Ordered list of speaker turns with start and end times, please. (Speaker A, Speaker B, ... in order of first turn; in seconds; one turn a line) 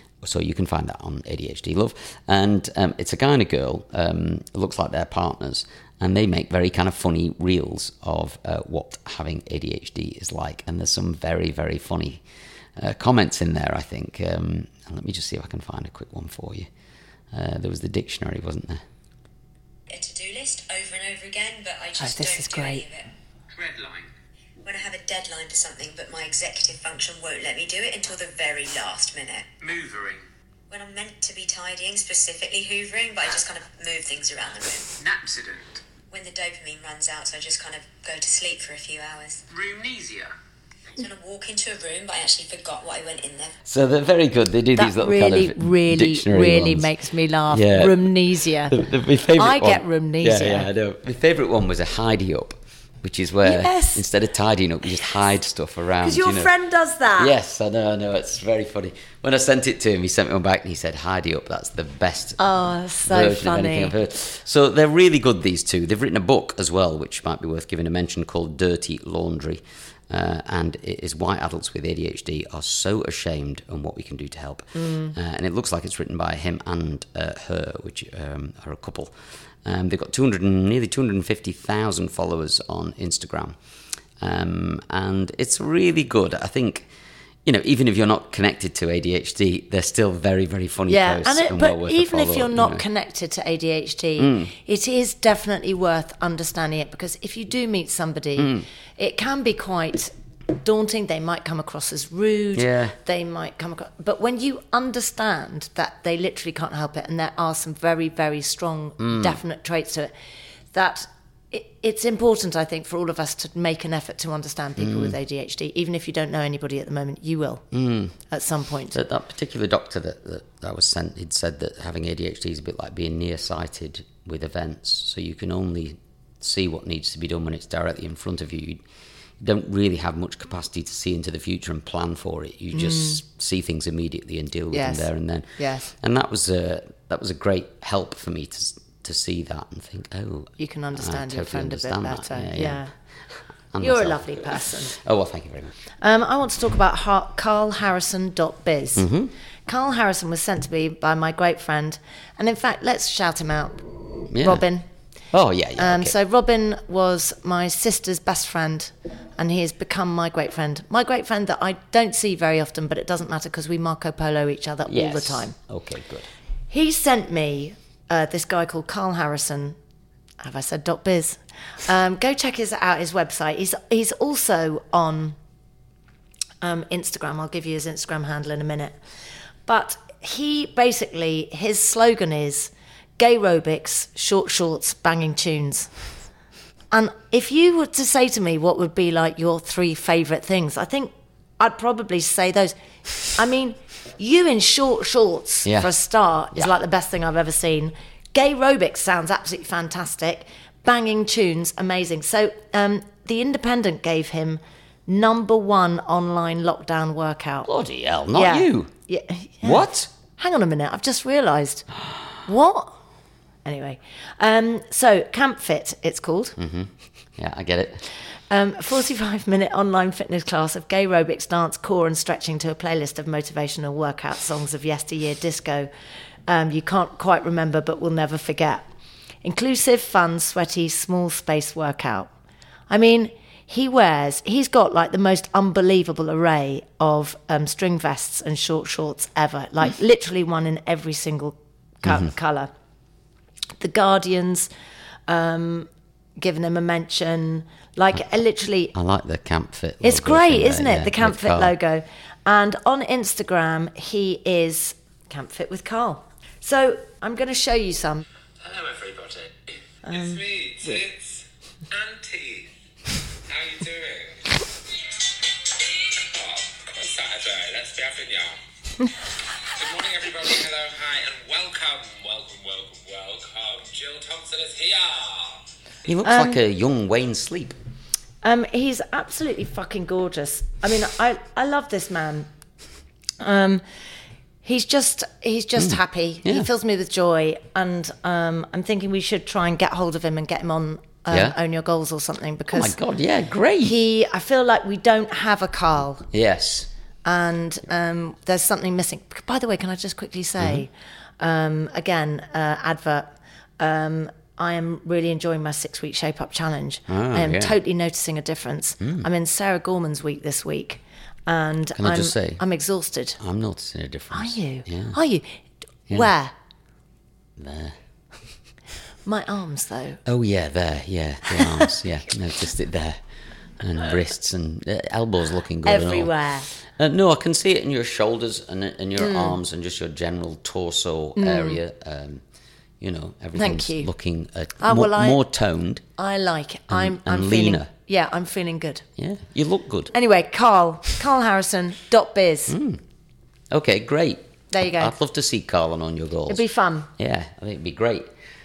Speaker A: 0.2-12.2
Speaker A: 12.8-16.7
Speaker A: 17.3-18.8
Speaker B: 19.9-23.1
Speaker C: 22.0-22.9
Speaker D: 23.6-24.0
Speaker B: 24.6-29.6
Speaker A: 29.7-30.1
Speaker B: 30.7-35.0
Speaker A: 35.0-35.7
Speaker B: 36.1-39.4
Speaker A: 39.5-40.3
Speaker B: 41.0-43.6
Speaker A: 43.6-46.9
Speaker C: 44.8-48.8
Speaker A: 47.5-56.5
Speaker C: 49.3-50.7
Speaker C: 53.4-54.1
Speaker C: 56.0-57.3
Speaker A: 57.1-62.4
Speaker C: 62.4-63.9
Speaker A: 63.0-83.6
Speaker C: 74.8-75.2
Speaker A: 84.2-86.9
Speaker A: 87.5-92.8
Speaker C: 90.9-110.1
Speaker A: 94.2-94.5
Speaker A: 98.4-98.7
Speaker A: 102.5-103.0
Speaker A: 109.0-109.4
Speaker C: 110.7-117.7
Speaker A: 114.8-115.2
Speaker A: 117.7-118.2
Speaker C: 118.3-119.0
Speaker A: 118.9-128.8
Speaker A: 129.4-142.8
Speaker C: 132.7-133.2
Speaker C: 134.7-135.9
Speaker C: 140.6-142.9
Speaker A: 143.7-145.8
Speaker C: 143.8-145.0
Speaker C: 146.0-149.1
Speaker A: 149.0-149.3
Speaker C: 149.7-153.8
Speaker A: 154.3-154.7
Speaker C: 154.4-154.9
Speaker A: 155.3-156.2
Speaker C: 155.8-165.6
Speaker A: 164.8-166.3
Speaker C: 166.7-169.8
Speaker C: 170.4-175.4
Speaker C: 176.6-179.0
Speaker C: 179.7-185.9
Speaker C: 186.9-207.7
Speaker A: 195.7-195.9
Speaker A: 207.7-208.9
Speaker C: 208.3-211.9
Speaker A: 209.6-210.1
Speaker C: 212.4-213.0
Speaker C: 213.7-216.6
Speaker A: 216.6-218.0
Speaker C: 218.5-225.9
Speaker C: 226.5-228.9
Speaker C: 229.4-232.3
Speaker C: 232.9-242.7
Speaker A: 242.1-242.3
Speaker C: 243.8-244.7
Speaker C: 245.3-248.9
Speaker A: 248.9-251.8
Speaker C: 250.0-258.2
Speaker D: 258.6-262.8
Speaker C: 260.1-260.4
Speaker D: 263.5-264.6
Speaker D: 266.0-268.6
Speaker D: 269.8-275.6
Speaker A: 276.1-277.8
Speaker C: 276.2-276.6
Speaker C: 278.4-282.5
Speaker C: 283.4-283.8
Speaker C: 284.6-293.0
Speaker A: 285.8-286.7
Speaker A: 291.3-291.6
Speaker A: 292.7-294.0
Speaker C: 293.8-296.3
Speaker A: 296.3-296.9
Speaker C: 297.2-313.4
Speaker A: 300.6-300.9
Speaker A: 307.1-307.8
Speaker A: 309.0-309.3
Speaker A: 312.0-312.6
Speaker A: 313.4-315.2
Speaker C: 314.3-315.5
Speaker C: 316.1-316.5
Speaker A: 317.6-318.0
Speaker C: 319.3-320.2
Speaker A: 320.2-323.2
Speaker C: 321.5-321.9
Speaker A: 323.8-332.4
Speaker C: 325.9-326.7
Speaker C: 329.2-329.6
Speaker C: 331.4-331.8
Speaker A: 333.0-336.1
Speaker C: 333.6-334.1
Speaker C: 334.8-335.4
Speaker C: 336.2-339.1
Speaker A: 336.9-337.9
Speaker A: 339.2-340.1
Speaker C: 340.1-342.8
Speaker A: 342.7-343.0
Speaker A: 343.7-346.6
Speaker C: 344.7-345.1
Speaker C: 346.5-347.1
Speaker A: 347.2-348.3